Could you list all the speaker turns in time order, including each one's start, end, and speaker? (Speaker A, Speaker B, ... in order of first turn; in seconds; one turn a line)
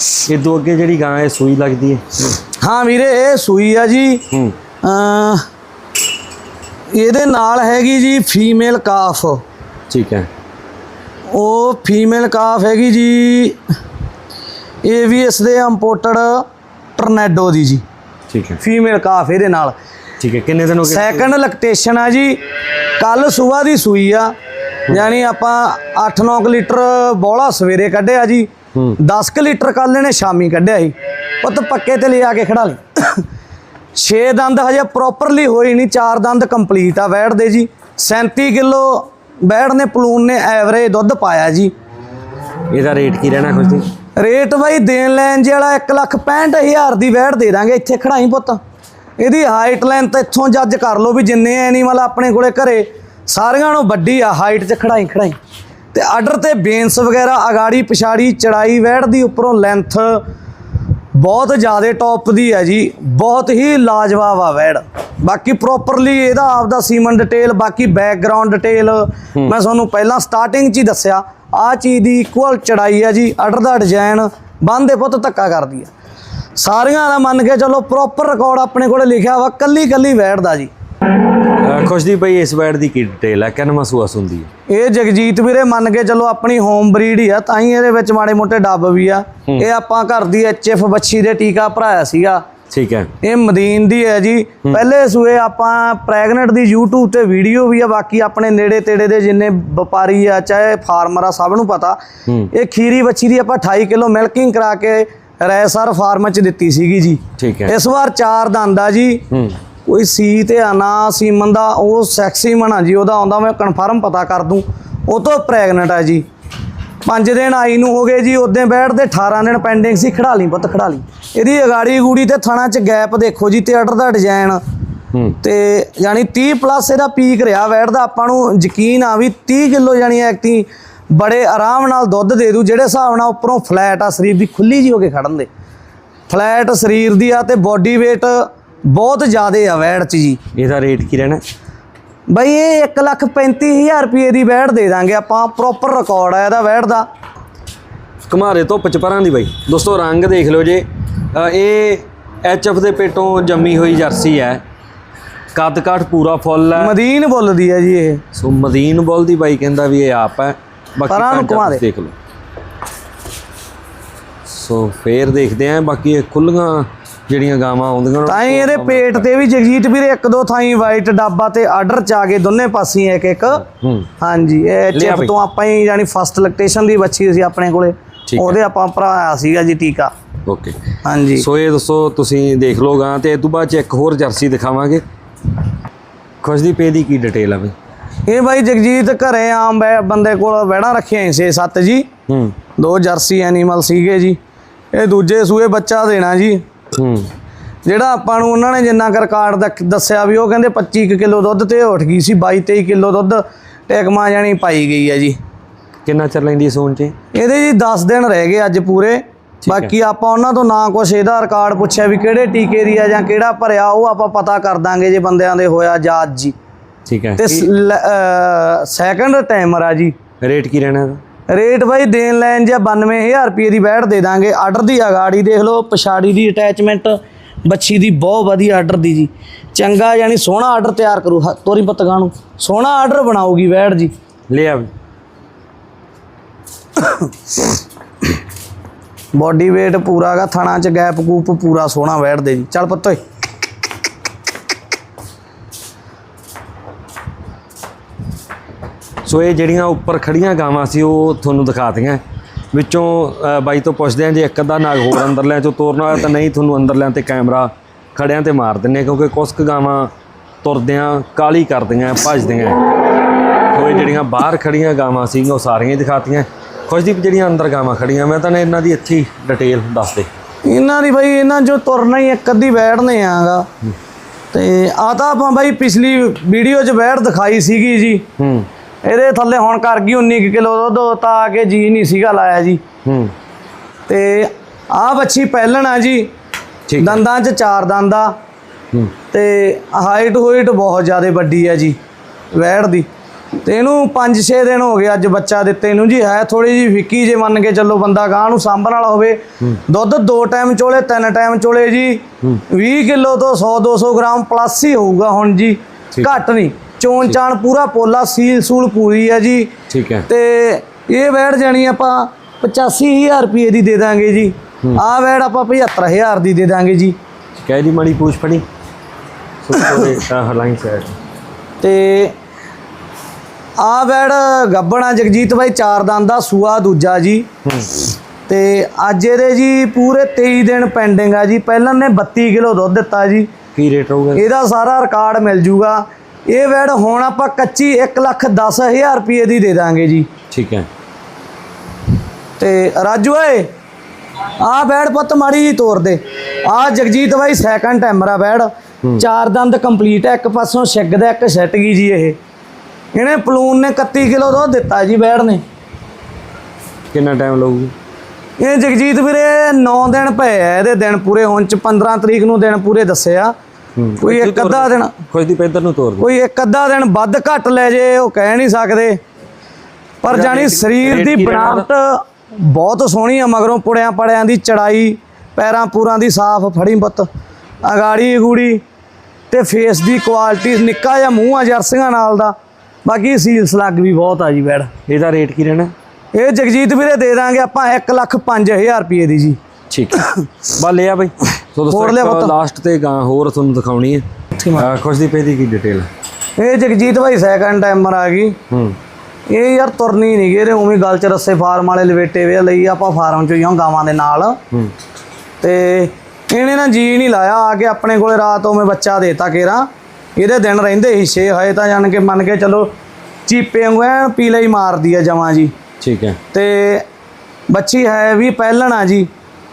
Speaker A: 0.3-2.4
Speaker B: 2.6-4.2
Speaker B: 4.8-5.4
Speaker B: 6.9-9.4
Speaker A: 9.9-10.3
Speaker B: 11.3-13.6
Speaker B: 14.8-16.4
Speaker B: 17.0-17.8
Speaker A: 18.3-18.6
Speaker B: 18.6-19.7
Speaker A: 20.2-21.3
Speaker B: 20.9-22.4
Speaker B: 23.0-24.3
Speaker B: 24.9-33.2
Speaker B: 34.0-41.7
Speaker A: 42.7-43.9
Speaker B: 44.2-48.6
Speaker B: 49.2-55.4
Speaker B: 55.9-60.2
Speaker B: 61.1-75.9
Speaker B: 76.6-80.7
Speaker A: 81.5-84.5
Speaker B: 84.7-92.4
Speaker A: 92.7-93.1
Speaker B: 93.2-102.0
Speaker B: 102.5-109.2
Speaker A: 107.4-107.7
Speaker B: 109.8-116.2
Speaker B: 117.0-124.6
Speaker A: 125.1-125.4
Speaker B: 125.4-135.5
Speaker B: 136.3-140.4
Speaker A: 140.5-141.4
Speaker B: 142.3-147.1
Speaker A: 148.3-154.6
Speaker A: 155.5-156.9
Speaker B: 156.8-158.2
Speaker A: 158.3-162.1
Speaker B: 161.1-161.8
Speaker A: 164.5-169.2
Speaker B: 168.2-173.6
Speaker A: 173.8-174.1
Speaker B: 174.2-180.1
Speaker A: 174.9-175.3
Speaker A: 178.3-178.6
Speaker A: 180.5-180.8
Speaker B: 181.0-181.4
Speaker A: 181.4-185.0
Speaker A: 186.4-187.7
Speaker B: 188.2-192.1
Speaker A: 192.3-192.6
Speaker B: 192.8-194.4
Speaker B: 194.9-196.6
Speaker A: 196.9-197.3
Speaker B: 197.8-205.4
Speaker A: 206.0-207.1
Speaker B: 207.3-216.5
Speaker A: 209.6-209.9
Speaker A: 217.1-217.7
Speaker B: 217.4-220.1
Speaker A: 220.4-221.2
Speaker B: 221.5-234.1
Speaker A: 234.5-234.9
Speaker B: 237.0-237.2
Speaker B: 239.3-243.2
Speaker A: 249.2-252.2
Speaker A: 252.7-260.1
Speaker A: 260.6-262.8
Speaker A: 263.7-270.3
Speaker B: 270.6-273.6
Speaker B: 274.5-278.2
Speaker A: 278.4-278.7
Speaker B: 279.0-282.8
Speaker A: 283.0-283.3
Speaker B: 284.1-286.3
Speaker A: 286.9-287.2
Speaker B: 287.0-288.3
Speaker B: 289.3-291.9
Speaker B: 292.5-293.1
Speaker B: 293.6-309.7
Speaker A: 309.9-310.3
Speaker B: 310.3-317.1
Speaker A: 317.6-318.6
Speaker A: 319.6-321.1
Speaker B: 319.7-320.1
Speaker B: 321.8-322.3
Speaker B: 323.8-327.5
Speaker A: 327.6-328.0
Speaker B: 328.5-333.5
Speaker A: 333.7-334.4
Speaker B: 334.3-340.3
Speaker A: 340.5-340.9
Speaker B: 342.6-343.7
Speaker B: 344.6-352.4
Speaker B: 353.1-355.6
Speaker A: 357.1-357.9
Speaker B: 358.6-363.5
Speaker A: 364.0-366.2
Speaker B: 364.2-365.1
Speaker B: 366.2-369.2
Speaker B: 370.2-377.3
Speaker A: 370.2-371.9
Speaker B: 377.8-378.8
Speaker B: 379.5-382.5
Speaker B: 383.0-384.9
Speaker A: 385.1-385.9
Speaker B: 386.3-389.6
Speaker A: 389.9-396.1
Speaker B: 390.1-390.4
Speaker B: 391.9-392.5
Speaker B: 394.6-394.8
Speaker B: 396.6-398.6
Speaker A: 398.7-398.9
Speaker B: 399.5-404.6
Speaker B: 405.6-409.9
Speaker B: 410.4-412.9
Speaker B: 413.5-415.7
Speaker A: 416.0-416.4
Speaker B: 416.5-417.0
Speaker B: 417.7-419.3